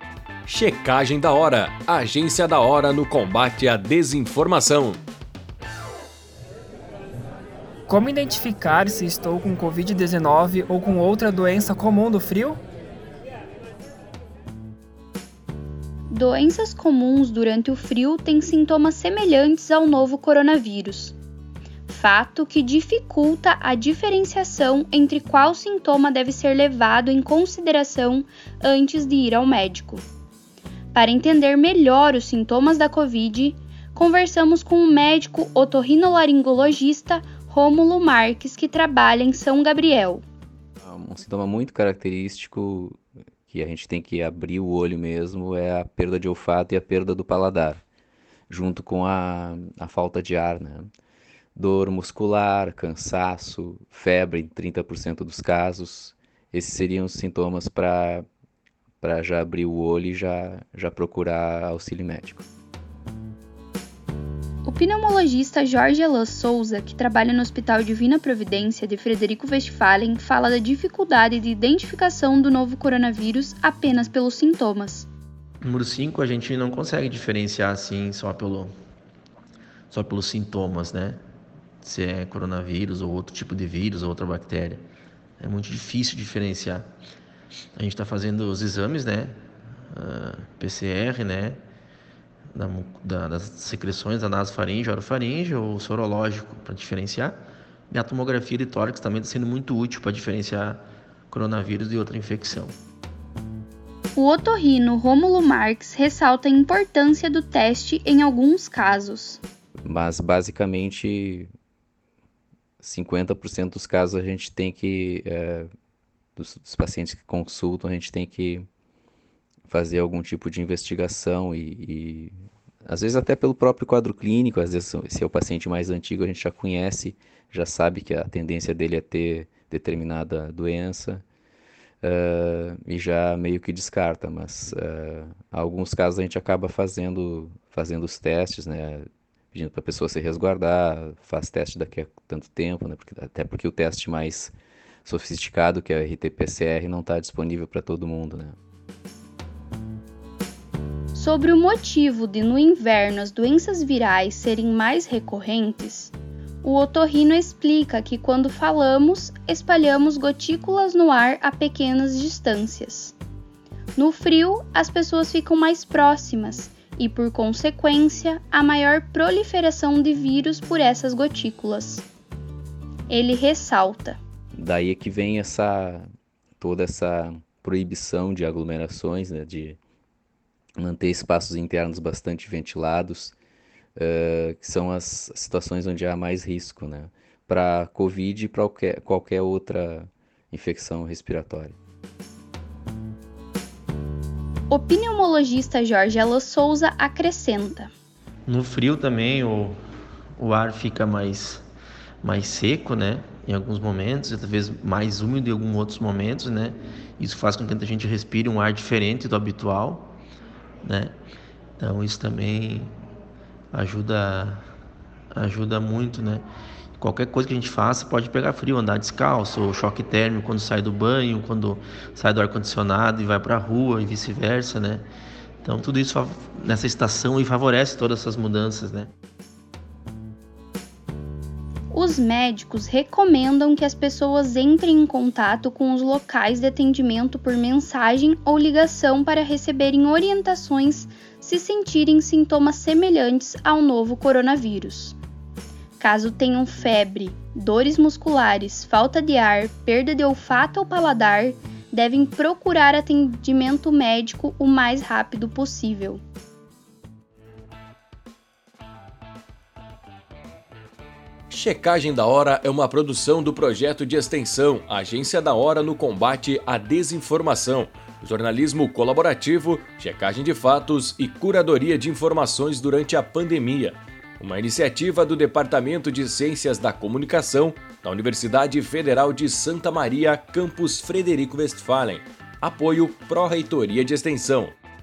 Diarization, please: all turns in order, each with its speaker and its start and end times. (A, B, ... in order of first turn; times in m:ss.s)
0:00.5-0:05.0 A
0:07.9-0:12.6 B
0:16.1-0:21.2 C
0:21.9-0:30.0 C
0:30.9-0:40.2 C
0:40.8-0:47.8 D
0:48.5-0:50.9 D
0:51.6-0:58.2 D
0:59.0-1:02.5 D
1:04.6-1:15.1 C
1:15.6-1:18.7 E
1:19.9-1:21.2 E
1:21.8-1:24.8 E
1:25.4-1:26.9 E
1:27.8-1:29.4 E
1:29.9-1:31.6 E
1:32.5-1:42.8 E
1:44.2-1:49.4 C
1:49.8-1:51.5 D
1:52.8-1:55.7 D
1:56.4-1:58.7 D
1:59.7-2:02.3 D
2:02.9-2:11.2 D
2:12.0-2:24.5 D
2:25.0-2:28.6 D
2:31.1-2:43.2 C
2:44.0-2:52.1 C
2:53.1-2:54.2 C
2:54.5-2:59.8 D
3:00.8-3:03.4 D
3:04.0-3:11.8 D
3:14.7-3:17.9 C
3:18.5-3:19.8 E
3:20.4-3:21.6 E
3:22.2-3:30.1 E
3:30.8-3:31.2 E
3:31.8-3:32.9 E
3:33.7-3:34.7 E
3:35.3-3:36.5 E
3:37.0-3:45.1 E
3:45.6-3:49.1 E
3:51.9-4:05.2 C
4:06.0-4:16.2 C
4:21.5-4:44.8 A